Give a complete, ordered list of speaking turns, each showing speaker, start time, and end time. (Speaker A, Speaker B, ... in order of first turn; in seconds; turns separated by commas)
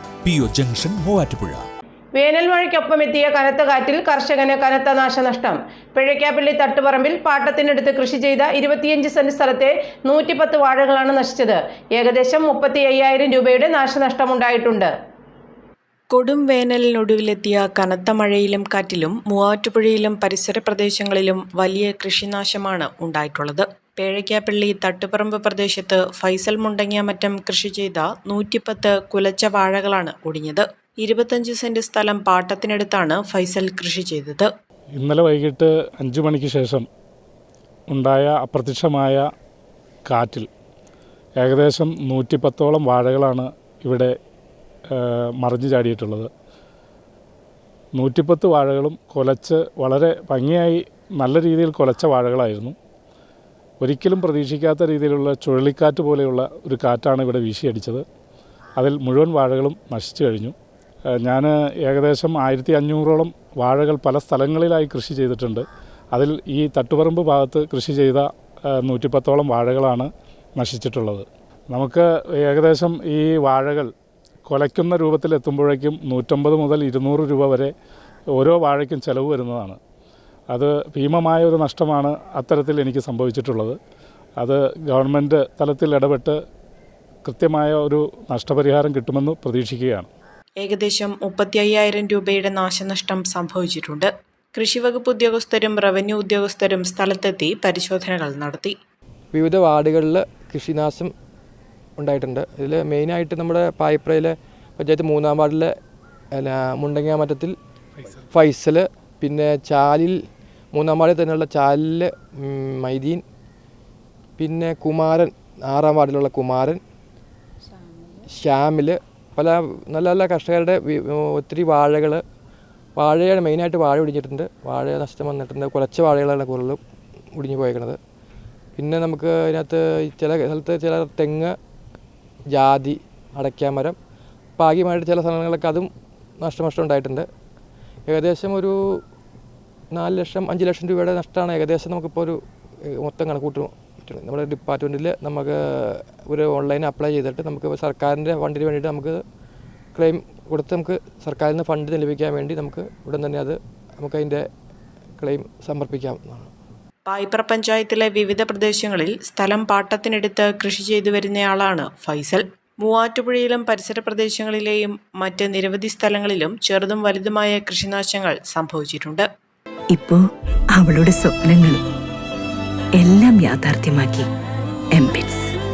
Speaker A: 0.3-1.6, Speaker A: 2.2-14.9, Speaker B: 16.1-34.5, Speaker C: 35.0-36.9, Speaker C: 37.9-39.2, Speaker C: 40.1-40.5, Speaker C: 41.4-44.1, Speaker C: 44.9-46.3, Speaker C: 48.0-52.8, Speaker C: 53.8-58.0, Speaker C: 58.8-60.5, Speaker C: 61.2-73.9, Speaker C: 74.5-77.7, Speaker C: 78.3-79.8, Speaker C: 80.5-83.8, Speaker C: 84.4-86.4, Speaker C: 87.2-90.1, Speaker B: 90.6-98.8, Speaker D: 99.3-101.1, Speaker D: 102.0-105.7, Speaker D: 106.3-107.5, Speaker D: 108.3-110.2, Speaker D: 110.7-113.2, Speaker D: 114.4-116.8, Speaker D: 118.3-122.2, Speaker D: 123.0-126.8, Speaker D: 127.4-128.0, Speaker D: 128.8-131.6, Speaker D: 132.5-134.0, Speaker D: 134.6-135.9, Speaker D: 136.4-137.3, Speaker D: 138.1-139.0, Speaker D: 139.9-149.2, Speaker D: 149.9-154.4, Speaker D: 155.2-156.5, Speaker B: 157.1-169.3, Speaker E: 169.9-171.8, Speaker E: 173.0-174.3, Speaker E: 174.9-175.5